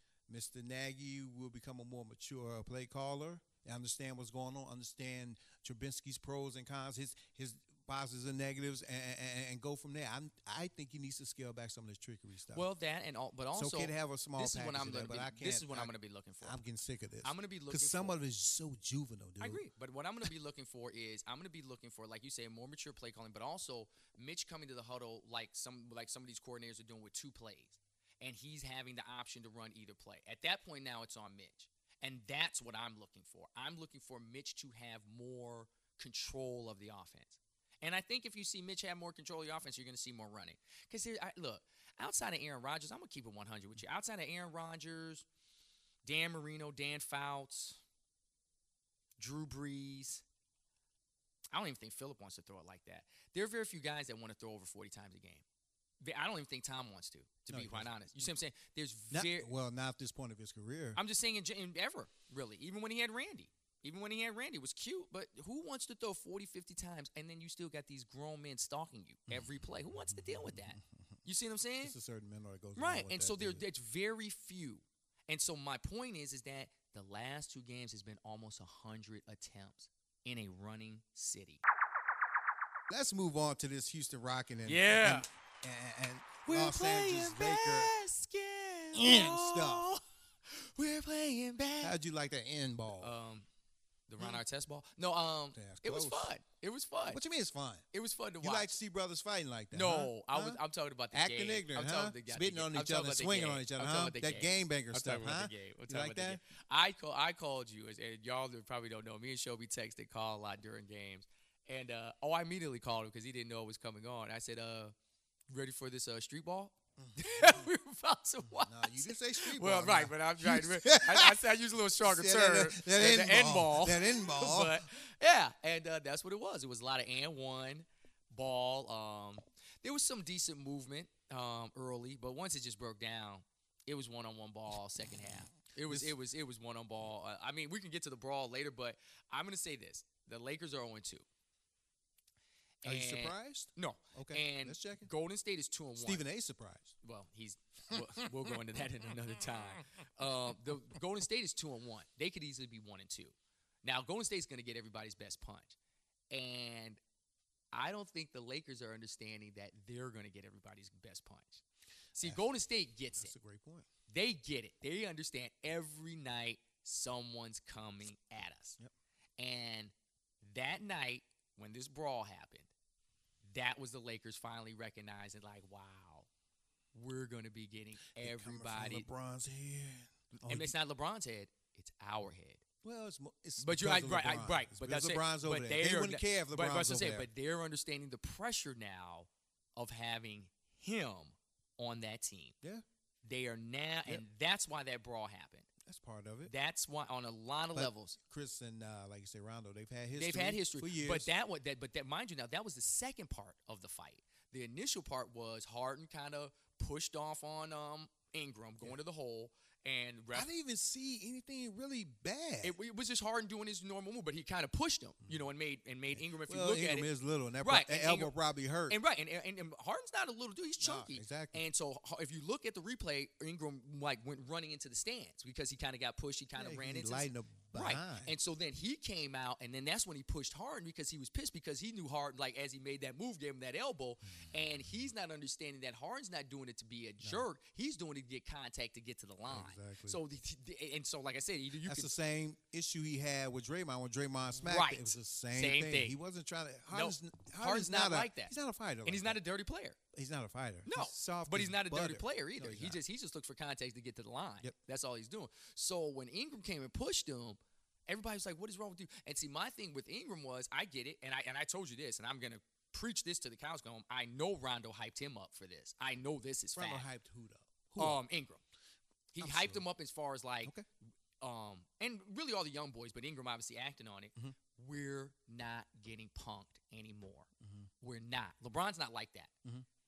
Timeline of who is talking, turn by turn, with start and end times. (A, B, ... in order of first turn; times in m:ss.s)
0:00.3-0:12.7 A
0:12.5-0:16.6 B
0:13.5-0:19.6 A
0:17.2-0:18.2 B
0:19.4-0:45.3 B
0:46.0-0:47.8 B
0:49.2-0:50.2 B
0:51.5-0:55.4 B
0:56.0-0:59.5 B
0:57.5-0:58.3 A
0:59.1-1:01.0 A
1:01.0-1:12.0 B
1:09.3-1:11.0 A
1:11.8-1:13.6 A
1:12.8-1:21.6 B
1:22.9-1:28.0 A
1:24.6-1:25.3 B
1:26.5-1:32.0 B
1:28.9-1:29.9 A
1:31.8-1:33.2 A
1:32.9-1:33.5 B
1:34.1-1:37.2 B
1:35.5-1:36.3 A
1:37.0-1:37.8 A
1:37.9-1:38.7 B
1:38.4-1:40.6 A
1:39.7-1:55.0 B
1:41.1-1:46.4 A
1:55.5-2:21.3 B
1:57.0-1:57.7 A
1:58.4-2:01.4 A
2:02.0-2:04.9 A
2:15.9-2:16.2 A
2:22.8-2:26.3 B
2:22.8-2:25.1 A
2:26.0-2:26.9 A
2:27.0-2:35.8 B
2:36.3-2:37.0 B
2:37.7-2:41.6 B
2:42.2-2:43.3 B
2:42.2-2:42.5 A
2:43.1-2:43.9 A
2:44.1-2:48.8 B
2:49.4-2:52.7 B
2:53.4-2:56.3 B
2:56.9-2:59.1 B
2:58.2-3:00.8 A
3:00.4-3:02.6 B
3:02.8-3:07.3 A
3:03.6-3:12.6 B
3:13.2-3:15.7 B
3:15.9-3:16.5 A
3:16.5-3:18.2 B
3:17.7-3:21.3 A
3:20.2-3:30.5 B
3:30.3-3:32.8 A
3:32.6-3:38.4 B
3:36.1-3:39.0 A
3:38.9-4:02.2 B
3:40.8-3:41.6 A
3:46.6-3:48.4 A
3:57.2-3:57.5 A
3:59.5-4:00.2 A
4:01.8-4:09.4 A
4:04.7-4:06.2 B
4:06.9-4:08.5 B
4:09.0-4:10.0 B
4:10.1-4:13.0 A
4:10.9-4:27.1 B
4:26.8-4:28.2 A
4:28.0-4:28.6 B
4:29.3-4:30.8 B
4:29.4-4:29.8 A
4:31.4-4:37.5 B
4:37.6-4:37.9 A
4:38.0-4:39.5 B